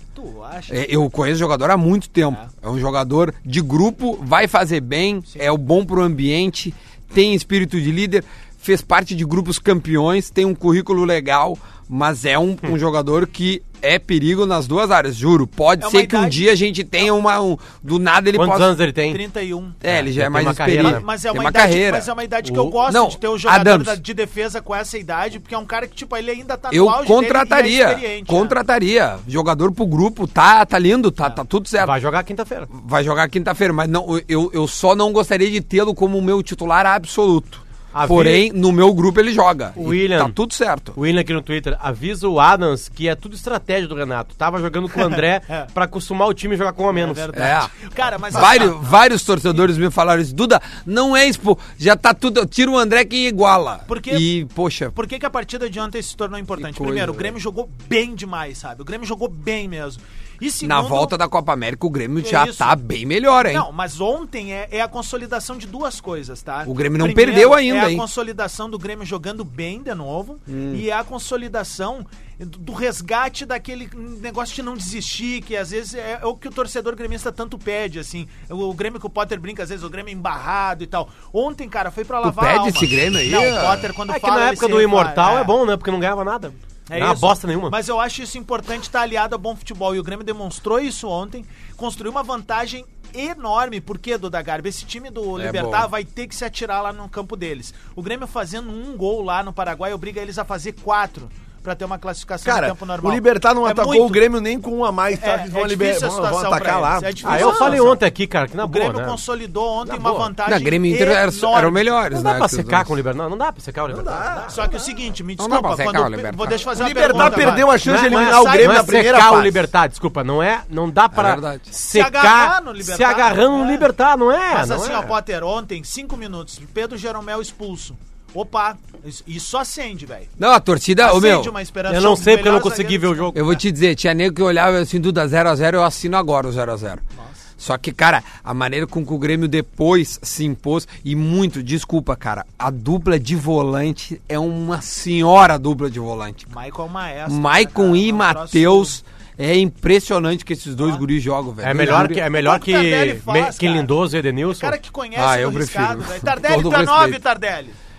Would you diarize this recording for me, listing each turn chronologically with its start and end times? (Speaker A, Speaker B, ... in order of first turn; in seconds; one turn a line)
Speaker A: 0.1-0.8
Speaker B: 0.7-18.8
Speaker A: 2.3-2.5
Speaker A: 5.3-5.5
Speaker A: 15.8-17.1
Speaker C: 18.3-19.2
Speaker A: 19.1-19.8
Speaker B: 19.8-22.1
Speaker C: 19.8-21.0
Speaker A: 20.7-28.6
Speaker C: 22.4-22.8
Speaker B: 22.8-24.0
Speaker B: 26.7-31.9
Speaker C: 31.8-32.7
Speaker B: 32.7-41.0
Speaker C: 37.9-38.5
Speaker C: 39.8-40.4
Speaker C: 40.9-47.3
Speaker A: 45.1-45.7
Speaker A: 46.9-48.9
Speaker B: 47.3-47.7
Speaker B: 48.3-55.0
Speaker A: 53.9-54.3
Speaker A: 54.9-61.2
Speaker B: 56.6-57.3
Speaker B: 60.6-63.6
Speaker A: 62.2-62.8
Speaker A: 63.3-85.5
Speaker B: 66.7-68.0
Speaker B: 70.5-70.8
Speaker B: 82.2-83.9
Speaker C: 84.1-87.8
Speaker A: 86.9-104.2
Speaker B: 95.3-95.9
Speaker D: 102.4-108.0
Speaker A: 105.2-107.9
Speaker C: 107.2-109.2
Speaker A: 108.6-111.9
Speaker C: 109.9-110.3
Speaker B: 110.4-112.9
Speaker C: 112.1-114.5
Speaker D: 113.9-114.9
Speaker A: 114.5-119.1
Speaker B: 115.4-116.5
Speaker D: 116.7-119.6
Speaker C: 117.1-125.1
Speaker B: 121.1-121.7
Speaker A: 121.9-123.9
Speaker A: 124.5-130.3
Speaker B: 130.4-131.5
Speaker A: 131.0-133.3
Speaker C: 131.9-133.6
Speaker B: 133.3-137.0
Speaker A: 137.1-137.5
Speaker B: 137.6-146.5
Speaker A: 146.5-149.0
Speaker B: 147.3-152.2
Speaker C: 151.6-154.8
Speaker A: 151.8-153.9
Speaker A: 154.5-157.8
Speaker B: 155.1-157.2